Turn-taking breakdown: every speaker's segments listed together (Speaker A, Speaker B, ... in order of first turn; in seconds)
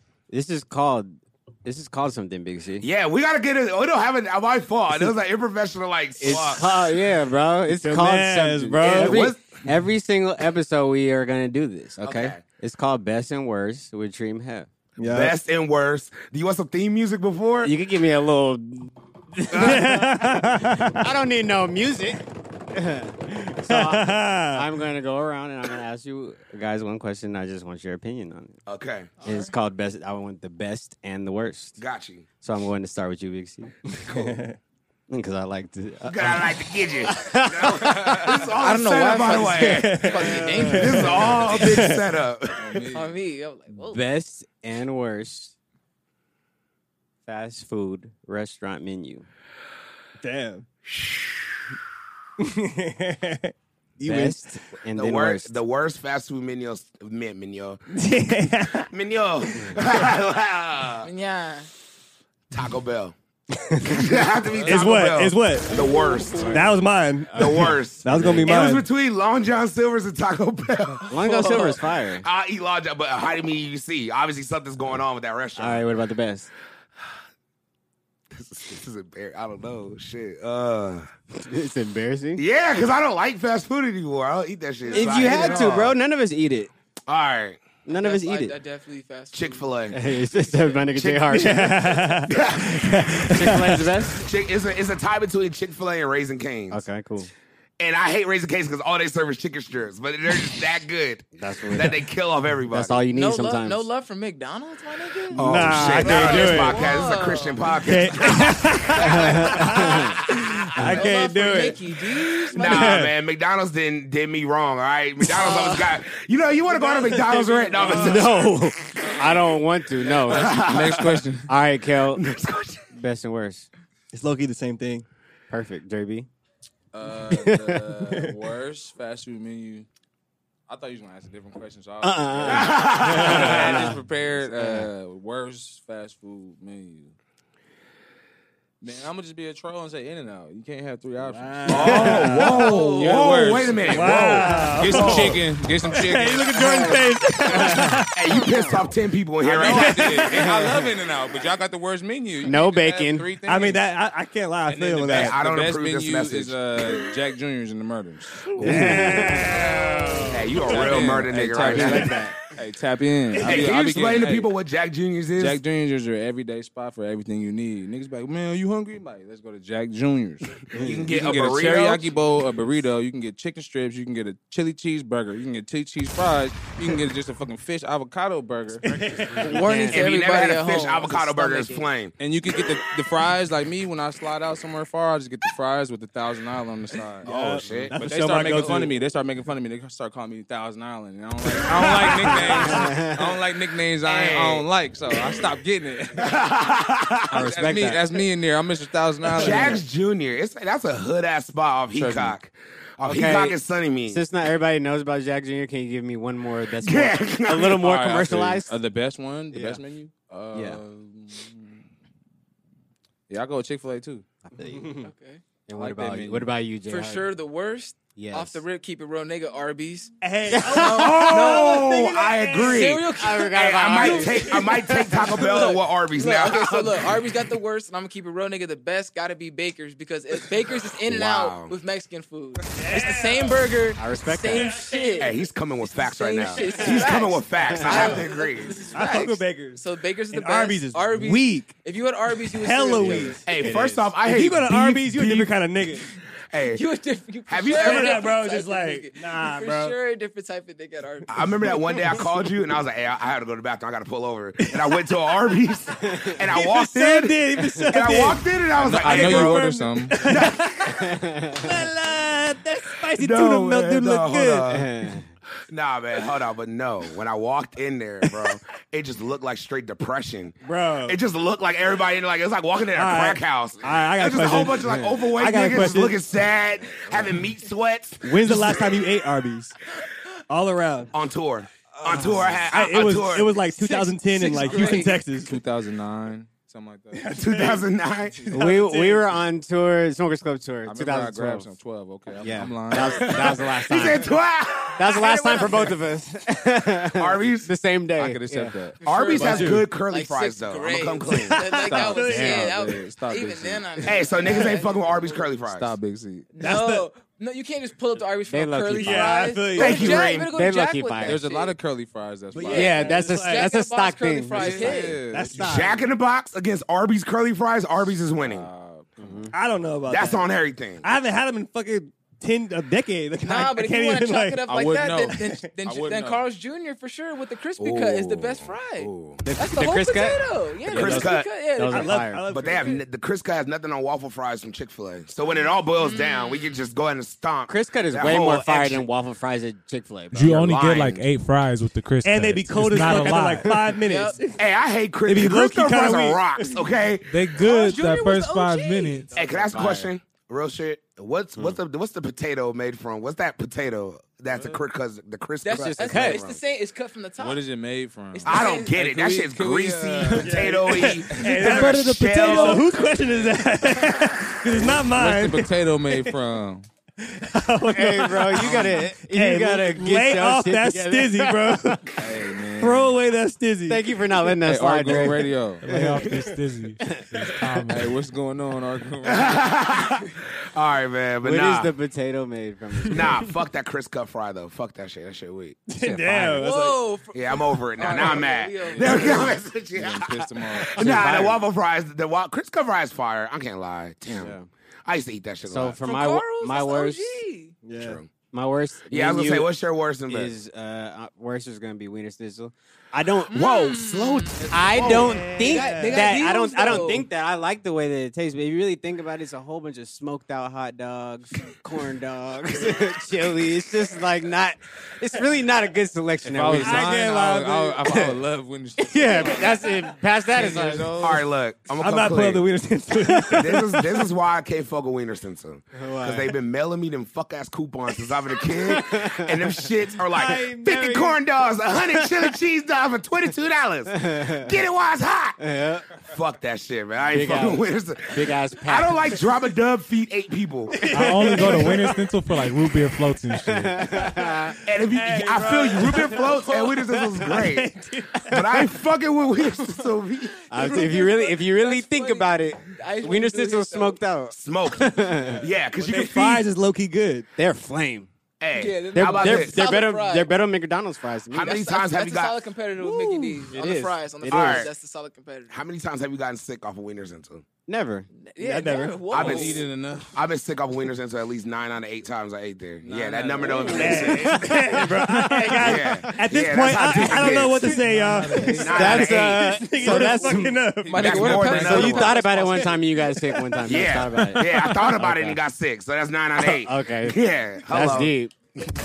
Speaker A: 0.3-2.9, 6.2-14.7, 17.6-28.6, 29.2-31.8, 32.4-33.8, 35.1-38.4, 43.8-45.5, 47.2-49.2, 54.0-55.5, 66.4-66.7, 67.3-68.5, 71.1-72.2, 75.6-76.5, 81.4-82.4, 84.9-86.7, 87.9-88.5, 89.9-94.2, 96.7-97.3, 101.4-102.0, 102.7-103.9, 109.0-110.1, 117.9-120.6, 121.5-122.2, 122.9-123.7, 125.5-126.3, 127.3-127.8, 132.0-134.9, 141.7-142.7, 147.5-147.9, 150.3-150.8, 152.4-153.3, 158.6-159.7, 161.0-162.4, 170.7-171.1, 179.4-180.1, 192.7-193.2, 197.3-198.0, 199.4-199.7, 203.0-203.6, 204.1-208.7, 209.5-209.8, 210.5-210.8, 214.5-215.0, 215.7-217.3, 218.2-218.6, 220.5-221.1, 223.1-224.7, 234.0-234.9, 237.7-238.2, 243.0-244.1, 256.0-256.4, 261.0-261.7, 264.7-265.3, 274.8-275.2, 288.5-291.7, 292.4-294.3, 295.0-298.8, 301.8-302.7, 308.5-311.4, 312.7-315.1, 319.2-319.5, 329.4-332.4, 337.7-341.2, 349.4-350.1, 355.7-356.4, 367.9-371.9, 373.9-376.3, 377.0-377.9, 381.4-383.5, 386.0-386.7, 390.9-391.6, 394.3-394.7, 395.6-397.4, 398.5-399.7, 400.3-403.6, 404.7-417.2, 418.1-418.3, 419.0-421.1, 425.9-426.5, 428.7-429.9, 432.1-432.5, 434.1-434.7, 435.6-436.1, 437.3-439.2, 443.6-444.7, 450.7-455.6, 457.6-458.3, 459.1-461.8, 463.0-464.9, 467.9-468.3, 474.1-476.4, 478.9-480.8, 481.7-485.6, 486.6-488.5
Speaker B: 2.8-6.7, 8.8-9.6, 12.0-12.4, 15.0-17.7, 28.7-29.1, 31.8-32.3, 34.0-34.4, 36.0-42.9, 54.9-57.8, 58.9-61.1, 62.5-63.1, 63.8-66.6, 67.3-75.8, 78.3-81.1, 82.4-85.9, 87.1-87.8, 89.3-90.0, 90.9-91.5, 92.3-93.0, 94.2-96.8, 97.8-103.0, 105.4-111.0, 112.5-118.5, 120.3-121.2, 122.1-122.8, 132.4-133.9, 141.7-145.4, 148.1-150.2, 155.1-157.0, 160.3-162.2, 163.4-165.6, 170.7-172.1, 179.9-182.1, 187.2-187.9, 191.6-192.8, 196.2-197.3, 199.3-204.2, 206.8-207.9, 220.9-227.2, 231.1-231.7, 235.2-238.8, 243.4-245.6, 246.5-246.8, 247.5-248.2, 251.3-259.6, 260.2-260.7, 263.1-264.9, 265.7-279.0, 281.1-283.6, 287.3-288.4, 293.9-295.1, 297.1-297.7, 299.0-301.6, 304.1-305.9, 309.8-310.5, 315.6-318.7, 320.1-321.0, 327.8-329.4, 330.9-331.5, 332.5-339.1, 344.6-347.3, 349.3-356.6, 358.4-363.0, 379.2-381.9, 383.1-385.8, 387.3-394.6, 395.1-396.0, 398.0-398.3, 399.1-400.5, 403.5-405.3, 421.2-422.7, 423.4-435.6, 436.3-441.0, 444.8-447.9, 448.4-450.7, 454.5-456.6, 458.6-459.8, 461.5-462.6, 464.4-464.9, 465.7-467.6, 469.3-474.6, 475.8-478.0, 478.7-479.8, 481.2-482.3, 483.8-488.3
Speaker C: 7.7-9.3, 15.0-15.3, 19.5-21.1, 23.6-24.6, 33.9-34.6, 39.6-42.0, 50.2-50.7, 52.4-54.4, 57.9-58.9, 64.7-65.7, 66.5-68.8, 91.3-93.8, 105.3-106.8, 107.8-113.1, 116.8-118.3, 124.1-125.0, 141.2-142.9, 143.8-148.5, 149.6-150.4, 153.5-155.4, 158.6-160.7, 178.8-179.6, 187.2-188.9, 214.7-215.1, 220.2-222.9, 224.3-225.6, 232.8-233.6, 238.9-241.7, 242.4-246.1, 247.7-249.9, 251.4-252.2, 254.6-255.4, 256.5-258.4, 259.0-264.7, 270.6-271.2, 272.9-276.2, 278.2-279.7, 280.5-281.1, 282.1-285.5, 287.1-287.9, 288.4-289.2, 299.4-299.8, 301.8-302.7, 306.6-307.1, 309.0-310.2, 312.5-313.7, 315.3-316.0, 319.5-320.4, 321.0-324.6, 331.9-333.0, 342.2-344.6, 345.2-346.8, 360.4-366.3, 367.2-372.2, 372.8-374.0, 375.9-376.4, 385.9-387.0, 397.8-398.2, 404.9-407.2, 416.8-418.1, 422.0-424.2, 430.4-431.3, 440.9-442.9, 444.0-448.9, 455.4-457.5, 468.6-469.4, 473.7-481.4, 483.4-484.0, 484.7-485.0
Speaker D: 29.2-29.5, 38.5-41.5, 42.9-44.0, 61.0-61.7, 84.9-85.6, 87.9-89.7, 103.1-107.7, 110.8-113.0, 115.3-115.9, 116.7-118.1, 142.5-143.4, 179.4-181.9, 215.0-215.4, 216.9-235.4, 235.9-243.4, 246.6-251.5, 283.7-285.1, 295.1-296.0, 299.0-305.1, 306.5-311.7, 312.6-315.2, 323.4-332.2, 336.0-336.8, 344.0-344.4, 347.6-349.3, 355.6-357.6, 358.3-359.0, 386.5-389.5, 396.0-397.8, 403.5-407.2, 450.7-454.2, 458.7-460.5, 461.6-465.8, 468.4-469.9, 475.5-475.9, 481.1-483.1
Speaker E: 42.6-43.2, 64.5-65.0, 120.0-121.5, 126.9-129.9, 130.7-137.1, 138.8-142.4, 143.0-147.8, 149.4-153.9, 154.7-164.5, 165.4-179.2, 182.2-196.3, 197.3-199.8, 201.9-202.4, 207.7-211.8, 213.3-214.2, 215.7-216.5, 258.8-260.3, 276.9-277.3, 284.4-287.4, 290.8-293.8, 298.1-299.0, 302.2-304.3, 305.1-306.5, 311.2-313.0, 314.5-316.0, 318.4-319.5, 324.7-326.4, 354.5-354.8, 357.4-361.9, 362.7-363.5, 364.6-366.9, 368.6-369.0, 372.2-373.1, 374.6-375.9, 377.9-379.7, 388.9-391.3, 416.4-421.4, 469.3-470.4, 473.0-474.8, 478.0-479.4, 480.0-482.4
Speaker F: 340.3-343.8, 347.3-349.3, 375.8-378.1, 441.1-444.1